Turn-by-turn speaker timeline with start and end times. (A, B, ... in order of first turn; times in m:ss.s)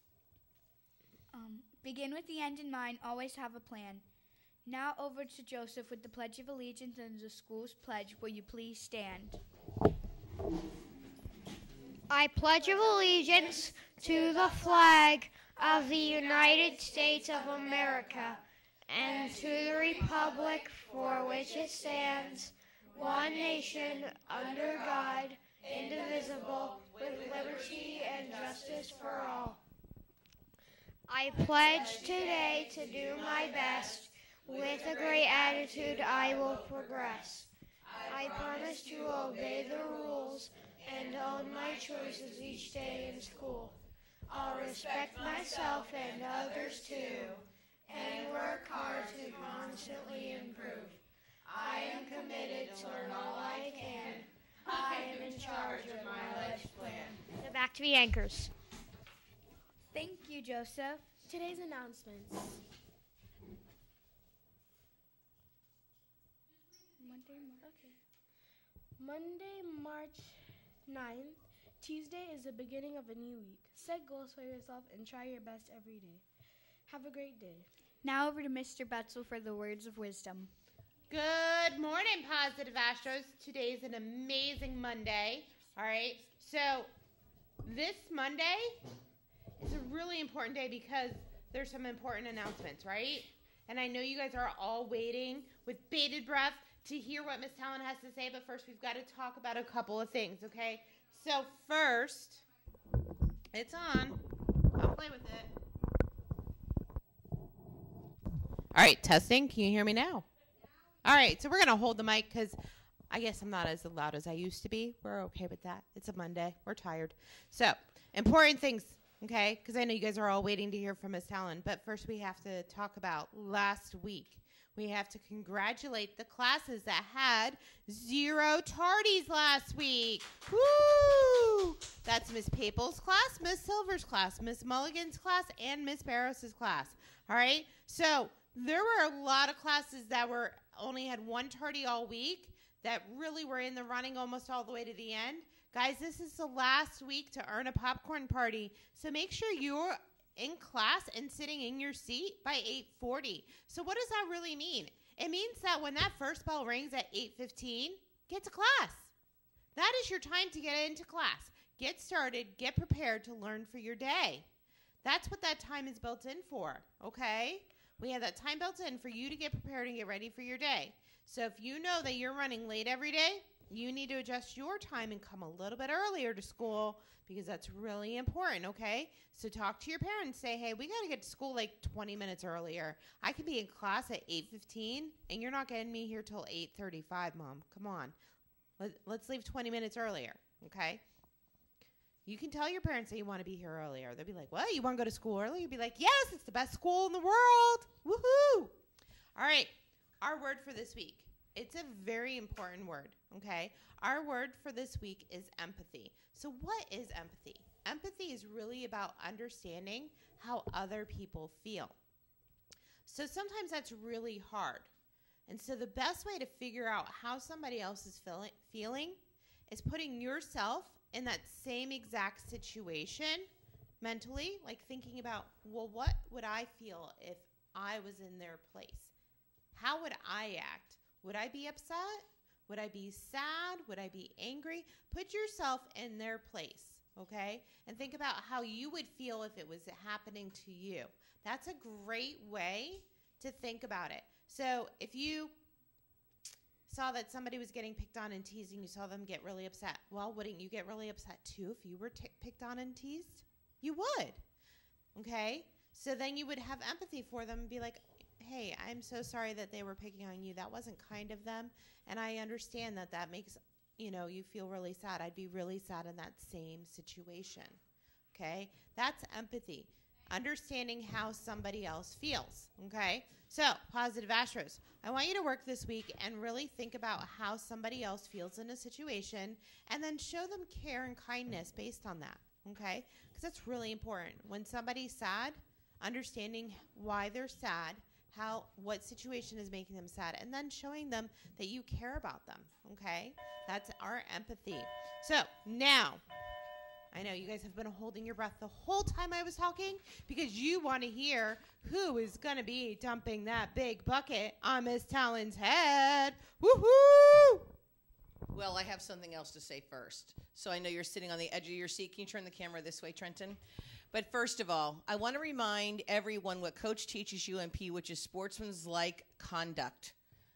0:01.3-0:04.0 A
0:04.6-0:09.4 A
0:12.1-0:29.6 B
0:31.1-0:51.0 B
0:51.4-0:54.2 C
0:51.6-0:58.5 B
0:54.7-0:55.0 C
0:55.9-0:56.8 C
0:59.9-1:01.0 A
1:01.3-1:02.6 D
1:07.0-1:07.7 A
1:07.6-1:08.0 D
1:09.0-1:16.2 D
1:16.9-1:17.7 D
1:18.0-1:20.5 A
1:21.1-1:26.9 C
1:27.6-1:28.8 C
1:29.6-1:42.4 C
1:43.5-1:44.2 C
1:44.8-1:45.5 C
1:48.7-1:50.2 C
1:51.0-1:52.6 C
1:53.1-2:39.1 C
2:39.7-2:44.4 C
2:45.0-3:08.1 C
3:08.8-3:11.0 C
3:12.2-3:18.8 C
3:19.3-3:32.0 C
3:33.0-3:34.9 C
3:35.5-3:43.5 C
3:44.0-3:49.1 C
3:49.7-4:05.5 C
4:06.9-4:14.4 C
4:15.1-4:27.8 C
4:28.3-4:56.2 C
4:57.1-5:07.7 C
5:08.5-5:13.6 E
5:14.1-5:20.1 E